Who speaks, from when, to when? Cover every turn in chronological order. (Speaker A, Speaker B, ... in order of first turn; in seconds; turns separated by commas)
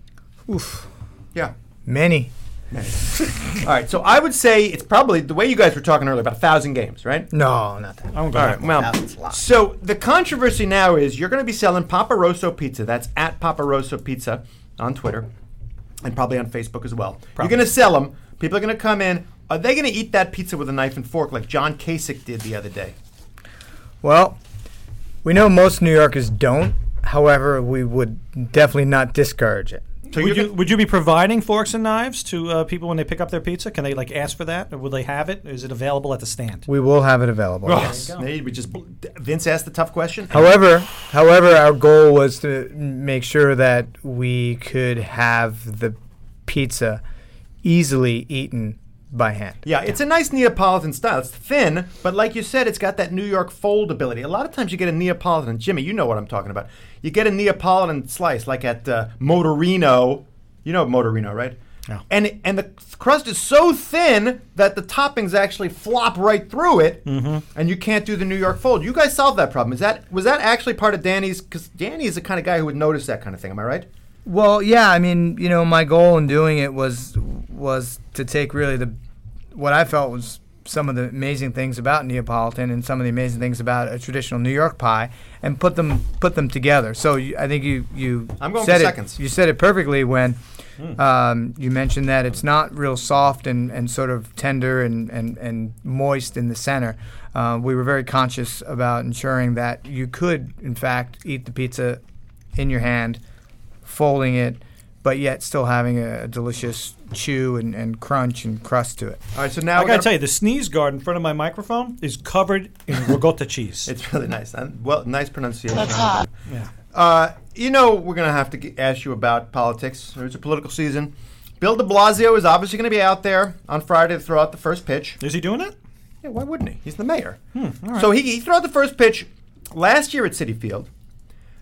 Speaker A: 0.5-0.9, Speaker A: 1.9-2.3, Speaker B: 2.7-7.3, Speaker A: 7.3-9.4, Speaker C: 8.1-8.7, Speaker B: 8.3-15.3, Speaker B: 16.0-22.9, Speaker C: 17.4-17.6, Speaker A: 24.0-24.4, Speaker A: 25.2-29.8, Speaker B: 30.1-30.5, Speaker C: 30.1-36.7, Speaker A: 36.7-38.1, Speaker C: 37.6-38.3, Speaker B: 37.7-40.5, Speaker A: 40.3-47.0, Speaker A: 47.6-49.6, Speaker B: 49.6-61.6, Speaker B: 62.1-73.9, Speaker C: 67.0-67.4, Speaker A: 74.2-79.0, Speaker A: 79.5-90.4, Speaker B: 88.4-89.2, Speaker A: 91.0-102.0, Speaker A: 102.5-103.2, Speaker A: 103.8-109.2, Speaker B: 109.3-110.1, Speaker C: 109.7-113.9, Speaker B: 113.9-116.3, Speaker B: 116.9-125.2, Speaker C: 125.2-125.7, Speaker B: 126.2-127.4, Speaker C: 127.5-128.1, Speaker B: 128.0-130.9